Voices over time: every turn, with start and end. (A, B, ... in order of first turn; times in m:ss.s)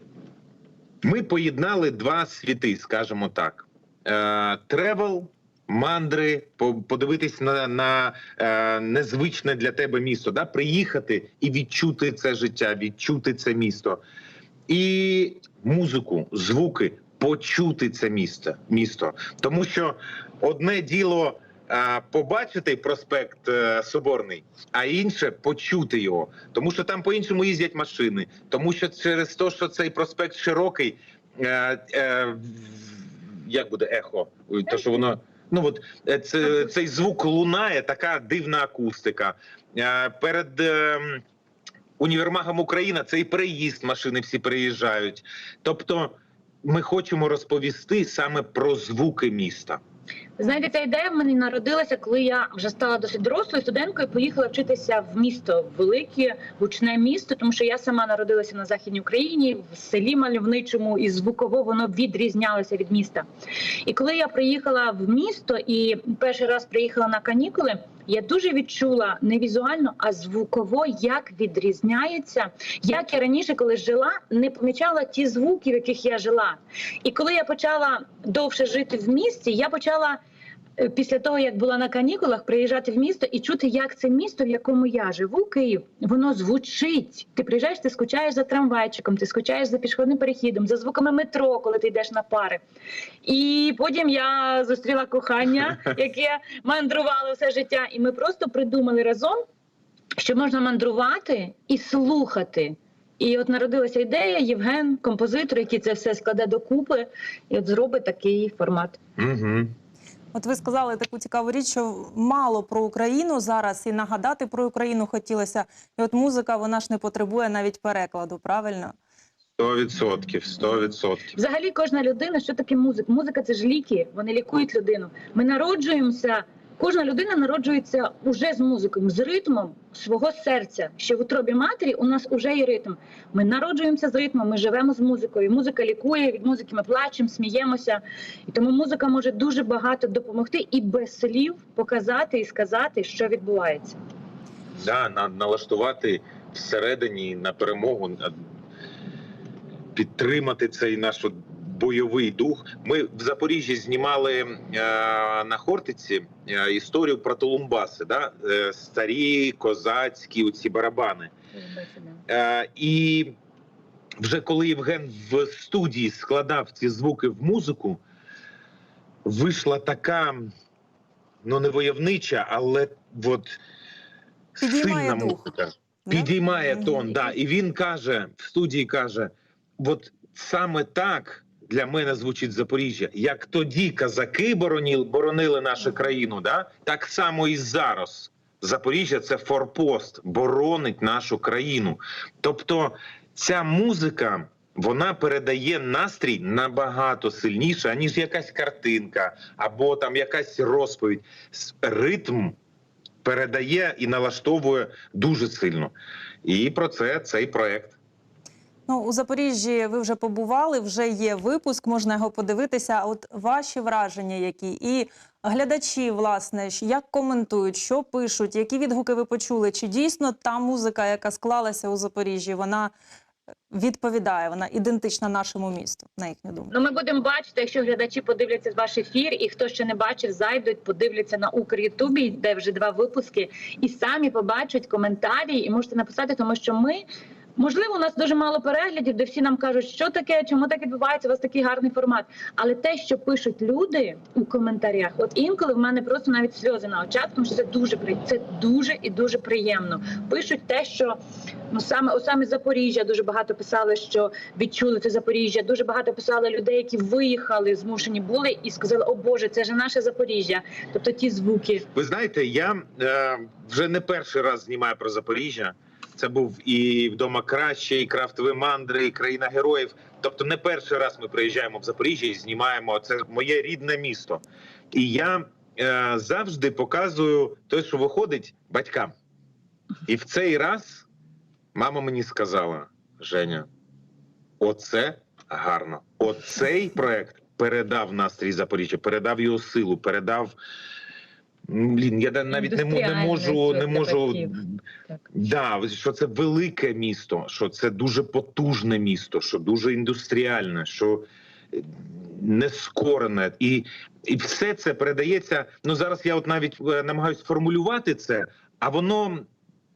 0:01.0-0:14.0 A
0:14.7-0:41.2 A
0:34.7-0:35.0 B
0:42.0-0:49.8 A
0:50.4-1:03.2 B
1:03.8-1:20.2 B
1:20.8-1:32.6 B
1:33.2-1:39.4 B
1:40.1-1:49.0 B
1:49.2-1:49.7 A
1:50.3-1:58.9 C
1:59.6-2:01.4 A
2:01.4-2:24.0 B
2:24.8-2:28.4 A
2:29.9-2:41.3 A
2:41.5-2:42.2 B
2:42.3-2:43.3 A
2:44.2-2:48.0 A
2:49.2-2:50.5 A
2:51.4-2:53.6 A
2:54.6-3:22.6 A
2:54.6-2:55.5 C
2:56.0-2:57.0 C
3:23.2-3:25.9 A
3:26.4-3:28.0 A
3:28.9-3:42.9 C
3:43.7-3:46.7 C
3:46.7-3:57.0 B
3:57.6-4:11.2 B
4:11.7-4:21.8 B
4:21.9-4:39.1 A
4:40.1-4:41.0 A
4:41.7-4:43.7 A
4:44.6-4:50.6 A
4:51.7-4:54.8 A
4:52.5-4:54.6 B
4:55.3-5:09.5 A